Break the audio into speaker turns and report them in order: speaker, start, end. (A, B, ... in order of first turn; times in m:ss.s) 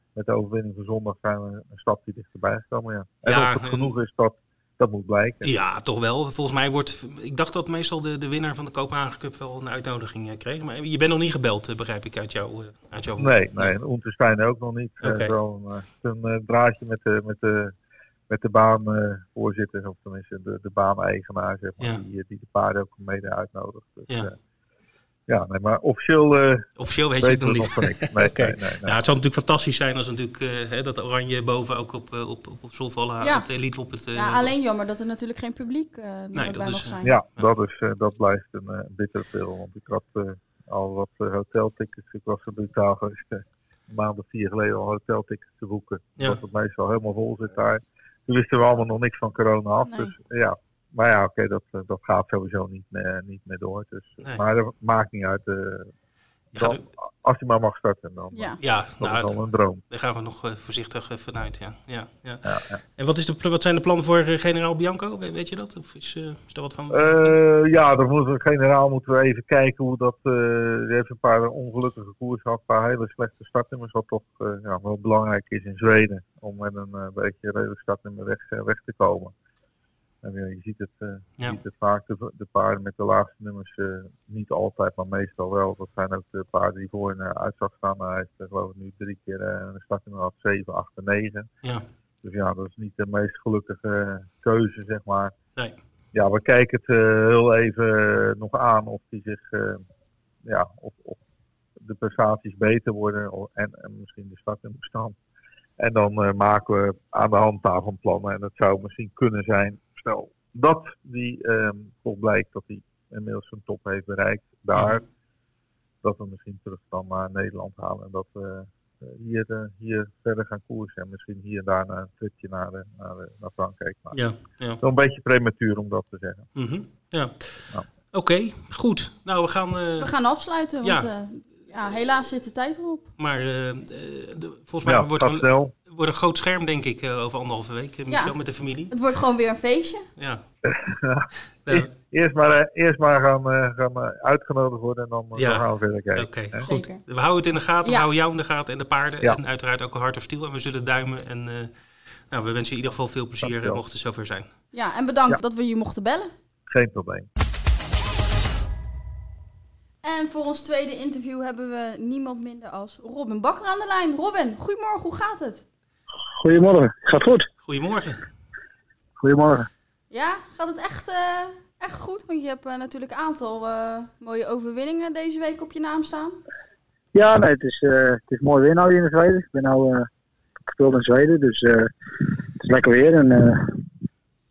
0:00.1-0:05.5 A
0:03.2-0:03.9 B
0:05.4-0:13.7 B
0:13.2-0:17.7 A
0:15.0-0:15.3 B
0:18.3-0:24.3 A
0:25.3-0:26.7 A
0:26.8-0:34.5 B
0:27.2-0:29.1 A
0:34.1-0:37.1 C
0:36.3-0:37.5 B
0:37.0-0:55.9 A
0:49.9-0:50.1 C
0:56.5-0:56.8 B
0:56.5-0:59.8 A
0:58.6-0:59.4 B
0:59.9-1:02.4 B
1:02.4-1:02.8 A
1:03.0-1:07.4 B
1:06.9-1:19.3 A
1:20.2-1:31.5 A
1:32.2-1:35.3 A
1:36.1-1:39.8 A
1:40.4-1:41.2 A
1:41.8-1:45.2 A
1:45.8-1:55.0 A
1:54.7-1:55.0 B
1:56.0-2:04.2 A
2:04.1-2:04.8 B
2:04.8-2:06.5 A
2:06.6-2:10.1 B
2:10.0-2:13.1 C
2:10.8-2:11.1 B
2:13.2-2:18.9 B
2:14.8-2:15.7 A
2:18.9-2:20.0 C
2:20.2-2:20.4 B
2:20.6-2:26.6 A
2:25.4-2:31.7 B
2:26.6-2:27.0 C
2:32.3-2:34.5 B
2:33.4-2:33.8 A
2:34.7-2:36.3 C
2:36.7-2:37.3 A
2:40.0-2:45.6 C
2:46.4-2:47.4 D
2:47.6-2:48.2 B
2:49.2-2:49.7 D
2:50.1-2:56.4 C
2:57.1-3:00.1 D
3:00.7-3:01.9 D
3:02.6-3:03.8 D